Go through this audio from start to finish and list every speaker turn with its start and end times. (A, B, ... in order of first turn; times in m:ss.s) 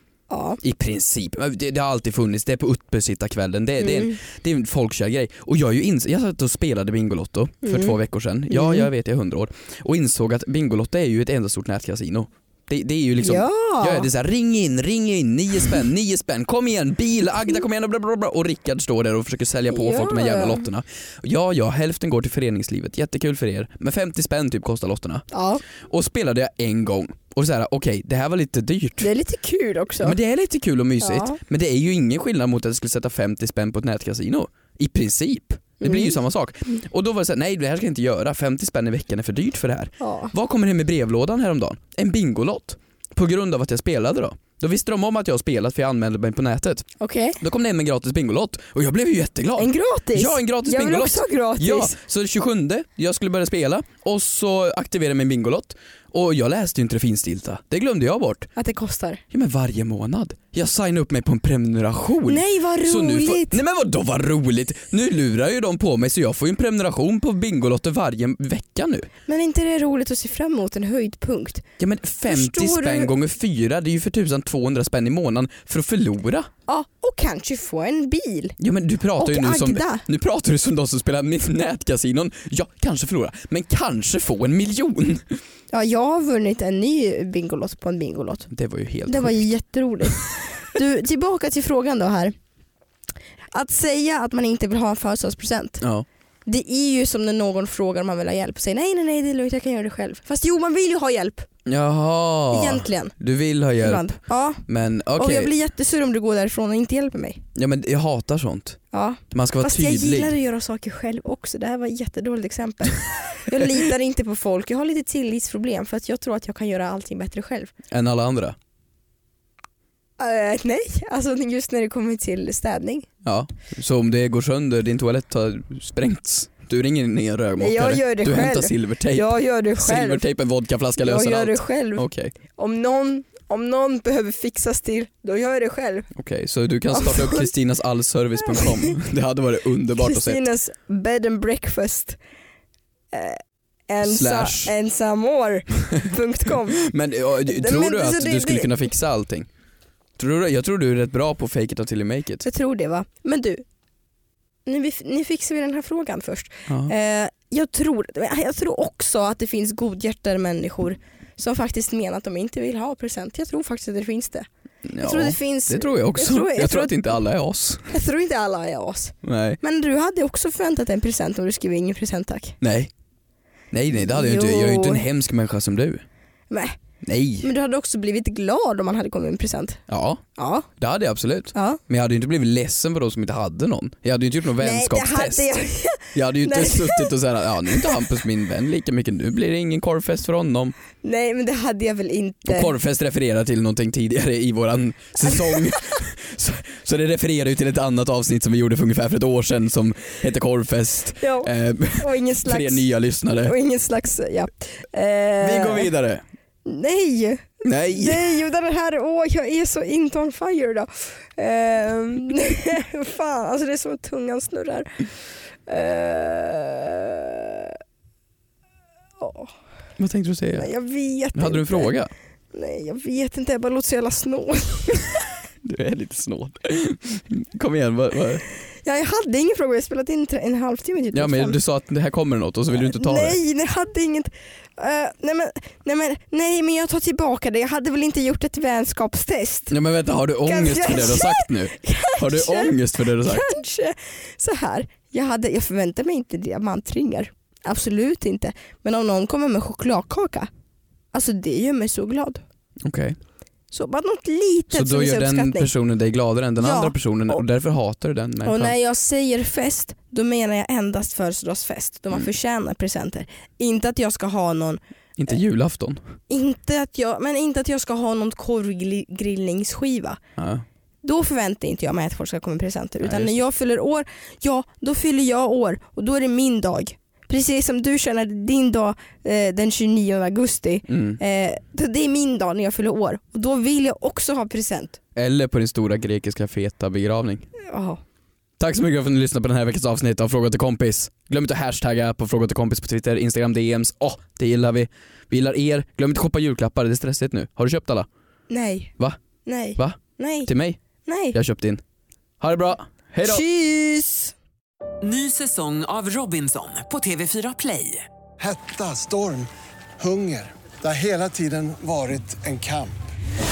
0:00.3-0:00.6 A
0:00.6-0:25.2 B
0:03.8-0:04.2 A
0:07.6-0:08.0 A
0:08.5-0:08.9 A
0:13.2-0:14.1 A
0:19.7-0:20.6 A
0:25.3-0:25.6 A
0:25.9-0:29.1 B
0:29.0-0:30.2 A
0:30.0-0:46.9 B
0:31.0-0:31.4 A
0:35.8-0:36.2 A
0:40.0-0:40.3 A
0:47.0-0:47.4 A
0:47.4-0:58.5 B
0:49.6-0:52.0 A
0:58.6-0:59.2 A
0:59.3-1:09.1 B
1:02.2-1:03.6 A
1:09.3-1:11.6 A
1:11.8-1:16.5 B
1:12.3-1:13.1 A
1:16.7-1:18.6 A
1:18.6-1:25.4 B
1:19.2-1:20.0 A
1:25.7-1:28.5 A
1:28.5-1:29.5 B
1:29.0-1:32.3 A
1:33.5-1:35.8 A
1:35.8-1:36.0 B
1:36.4-1:41.5 A
1:41.6-1:45.5 B
1:42.5-1:43.1 A
1:43.8-1:44.6 A
1:45.2-1:47.4 A
1:47.5-1:48.8 B
1:48.9-1:57.7 A
1:49.3-1:50.3 B
1:57.9-1:58.6 B
2:00.2-2:03.1 A
2:03.2-2:12.3 B
2:07.6-2:10.2 A
2:11.0-2:16.1 A
2:16.1-2:20.5 B
2:16.9-2:17.5 A
2:18.5-2:18.9 A
2:20.0-2:22.2 A
2:23.1-2:26.8 A
2:24.0-2:24.7 B
2:26.5-2:29.5 B
2:27.4-2:28.7 A
2:30.2-2:32.4 B
2:32.4-2:33.6 A
2:34.6-2:44.5 A
2:36.7-2:36.9 B
2:44.8-2:47.9 B
2:45.0-2:47.1 A
2:47.9-2:52.6 A
2:49.2-2:49.6 B
2:52.6-2:52.9 B
2:53.7-2:56.0 B
2:54.0-2:55.0 A
2:56.5-2:56.8 A
2:57.0-2:57.5 B
2:57.4-2:59.8 A
2:59.9-3:00.2 B
3:00.4-3:00.7 A
3:00.8-3:05.4 B
3:01.5-3:01.8 A
3:04.6-3:07.1 A
3:06.1-3:10.7 B
3:07.7-3:08.0 A
3:11.0-3:12.7 A
3:12.4-3:23.5 B
3:15.2-3:15.9 A
3:21.2-3:25.9 A
3:25.4-3:26.2 B
3:26.6-3:35.0 A
3:27.6-3:28.3 B
3:35.7-3:37.7 A
3:39.2-3:39.5 A
3:40.0-3:40.7 B
3:40.5-3:41.9 A
3:41.3-3:42.1 B
3:42.5-3:45.1 A
3:45.6-3:48.4 B
3:48.8-3:51.6 A
3:51.1-3:53.4 B
3:52.7-3:59.7 A
3:59.7-4:03.5 B
4:00.4-4:10.5 A
4:11.1-4:12.4 A
4:12.8-4:13.2 B
4:13.7-4:15.7 A
4:14.7-4:18.7 B
4:16.6-4:17.4 A
4:18.4-4:24.8 A
4:25.2-4:26.0 B
4:26.3-4:30.2 A
4:30.4-4:30.6 B
4:31.0-4:45.0 A
4:33.0-4:33.4 B
4:40.9-4:41.2 B
4:45.2-4:47.4 B
4:47.6-4:48.0 A
4:48.6-4:58.1 B
4:58.5-4:58.9 A
4:59.4-5:00.5 A
4:59.8-5:00.8 B
5:01.0-5:01.4 A
5:01.3-5:01.8 B
5:02.4-5:03.4 B
5:03.2-5:04.3 A
5:05.0-5:08.0 C
5:08.4-5:12.9 D